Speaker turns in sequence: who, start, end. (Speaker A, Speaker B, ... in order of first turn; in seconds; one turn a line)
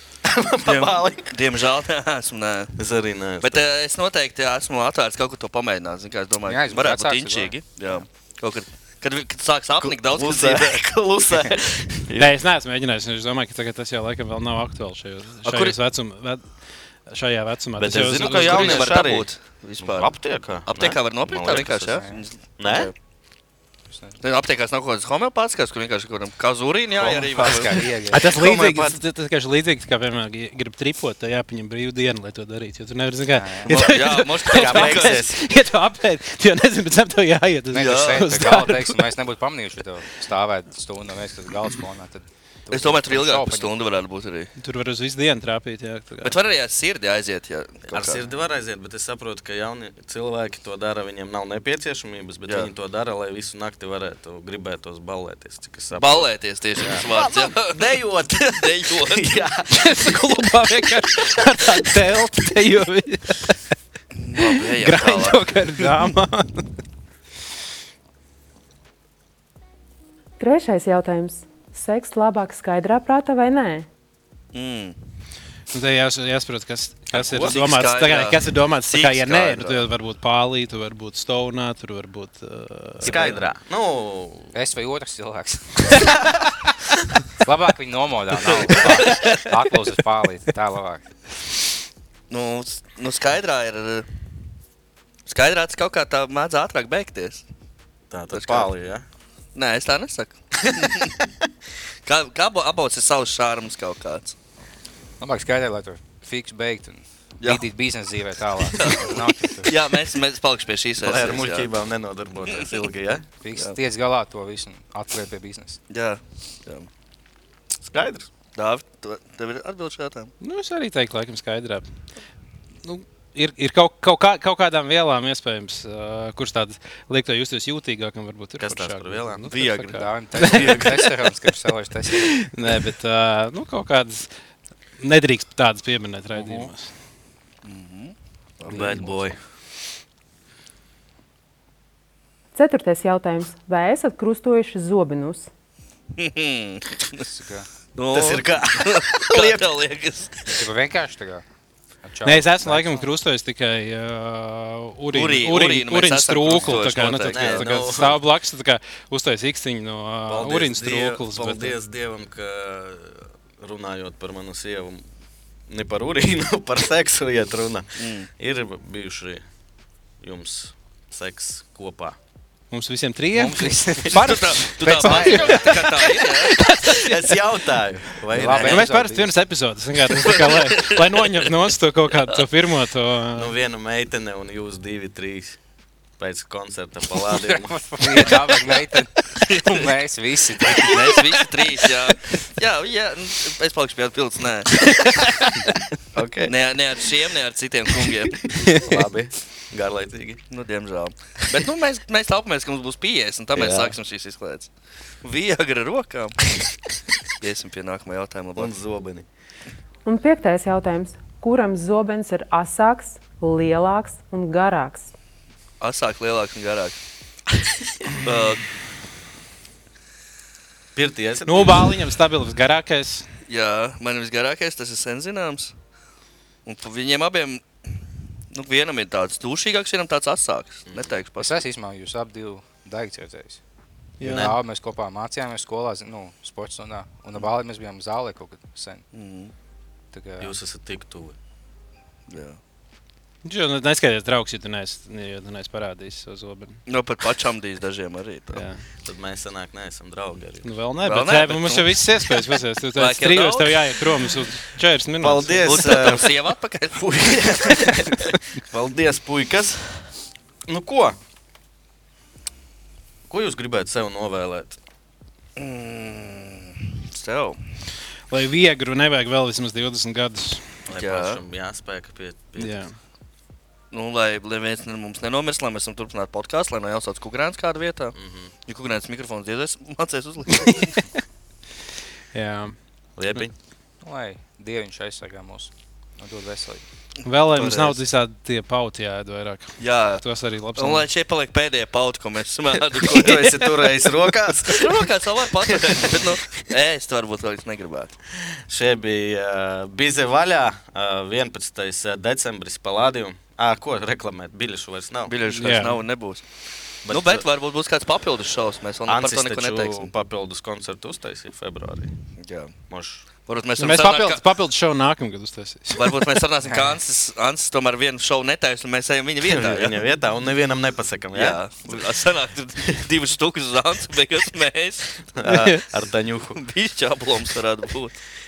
Speaker A: 0.2-1.3
Speaker B: 0.6-2.8
Speaker A: 2.8-3.6
Speaker B: 3.4-10.8
Speaker C: 6.4-8.0
Speaker A: 9.8-12.3
Speaker D: 12.2-16.5
Speaker B: 15.4-15.8
Speaker D: 17.1-19.0
Speaker A: 17.8-22.9
Speaker B: 18.2-20.1
Speaker B: 20.6-22.9
Speaker C: 21.9-22.2
Speaker C: 23.9-24.2
Speaker B: 24.2-27.9
Speaker C: 27.0-28.3
Speaker D: 28.1-39.0
Speaker A: 28.2-29.0
Speaker C: 33.3-33.9
Speaker B: 33.7-35.2
Speaker A: 34.5-35.4
Speaker C: 37.7-43.7
Speaker B: 37.8-38.2
Speaker B: 42.7-44.5
Speaker D: 44.6-46.4
Speaker B: 46.2-48.3
Speaker A: 47.9-60.2
Speaker B: 55.9-59.3
Speaker D: 59.7-63.7
Speaker B: 64.2-66.1
Speaker D: 64.3-66.7
Speaker E: 70.4-73.8
Speaker B: 74.5-75.0
Speaker D: 75.7-83.3
Speaker A: 77.1-77.6
Speaker B: 77.4-79.9
Speaker A: 83.0-84.5
Speaker C: 84.5-86.2
Speaker C: 87.4-91.1
Speaker B: 88.6-89.5
Speaker B: 92.3-94.0
Speaker B: 95.2-97.4
Speaker A: 98.1-99.0
Speaker B: 98.3-98.7
Speaker B: 99.5-101.1
Speaker B: 102.0-104.3
Speaker C: 105.2-109.8
Speaker B: 108.7-111.7
Speaker A: 111.0-113.2
Speaker C: 113.4-115.8
Speaker B: 115.9-116.9
Speaker A: 117.9-118.3
Speaker B: 118.5-120.3
Speaker D: 120.4-121.8
Speaker D: 122.8-131.1
Speaker A: 128.6-129.4
Speaker B: 129.5-131.0
Speaker C: 129.9-132.4
Speaker D: 132.2-134.3
Speaker D: 135.0-136.9
Speaker B: 137.6-139.3
Speaker C: 138.7-139.0
Speaker A: 138.7-139.4
Speaker E: 142.5-145.5
Speaker B: 146.2-147.2
Speaker C: 147.2-147.7
Speaker B: 147.9-150.6
Speaker A: 148.1-149.6
Speaker C: 150.5-151.4
Speaker C: 152.0-153.1
Speaker D: 152.2-161.7
Speaker B: 155.1-157.9
Speaker C: 156.5-156.8
Speaker A: 157.2-158.2
Speaker A: 160.2-165.1
Speaker A: 165.7-169.4
Speaker B: 168.0-168.3
Speaker A: 170.2-172.2
Speaker D: 172.7-177.3
Speaker C: 173.3-175.8
Speaker B: 174.1-176.6
Speaker A: 176.8-178.9
Speaker C: 178.3-179.3
Speaker D: 178.4-183.5
Speaker B: 180.1-181.5
Speaker A: 183.3-185.6
Speaker A: 186.2-188.4
Speaker C: 187.1-191.4
Speaker B: 189.4-189.8
Speaker B: 190.7-195.1
Speaker D: 195.0-195.5
Speaker A: 196.1-196.5
Speaker B: 196.5-198.5
Speaker A: 198.5-200.4
Speaker D: 198.7-199.0
Speaker B: 200.5-204.7
Speaker A: 203.5-203.9
Speaker B: 205.2-206.4
Speaker B: 207.4-208.7
Speaker A: 208.6-209.3
Speaker E: 210.0-215.1
Speaker B: 215.8-217.0
Speaker B: 218.2-218.6
Speaker A: 220.9-221.9
Speaker D: 221.5-223.2
Speaker B: 223.5-225.8
Speaker B: 226.6-231.6
Speaker A: 230.9-231.2
Speaker C: 231.4-233.6
Speaker D: 234.2-234.5
Speaker C: 234.2-239.0
Speaker A: 234.2-234.6
Speaker B: 239.1-239.5
Speaker C: 240.1-240.5
Speaker A: 240.4-241.3
Speaker B: 242.3-242.6
Speaker D: 243.4-246.8
Speaker B: 246.9-248.6
Speaker D: 248.5-248.8
Speaker A: 249.0-250.7
Speaker D: 250.6-255.8
Speaker B: 251.0-254.3
Speaker A: 255.2-256.3
Speaker B: 255.6-257.1
Speaker A: 256.9-260.1
Speaker A: 260.7-261.2
Speaker A: 263.3-264.8
Speaker B: 265.6-267.6
Speaker D: 268.3-270.7
Speaker A: 270.9-272.8
Speaker B: 270.9-271.4
Speaker D: 272.6-272.9
Speaker B: 273.9-278.1
Speaker A: 278.1-278.5
Speaker B: 278.6-281.1
Speaker D: 282.3-282.8
Speaker A: 283.2-283.5
Speaker C: 284.0-286.8
Speaker D: 287.2-291.1
Speaker B: 287.6-288.0
Speaker B: 289.8-290.2
Speaker B: 290.8-293.8
Speaker A: 293.1-295.1
Speaker B: 294.7-298.1
Speaker A: 295.7-296.2
Speaker A: 298.7-305.3
Speaker B: 305.3-306.5
Speaker D: 305.5-306.0
Speaker A: 307.0-307.4
Speaker B: 307.1-310.1
Speaker A: 309.1-312.1
Speaker B: 312.4-312.7
Speaker A: 312.9-313.2
Speaker B: 313.4-314.4
Speaker D: 313.8-316.3
Speaker B: 315.9-320.0
Speaker C: 316.6-317.0
Speaker A: 319.4-322.0
Speaker B: 321.3-325.3
Speaker A: 325.4-326.6
Speaker D: 325.5-325.8
Speaker B: 326.6-328.1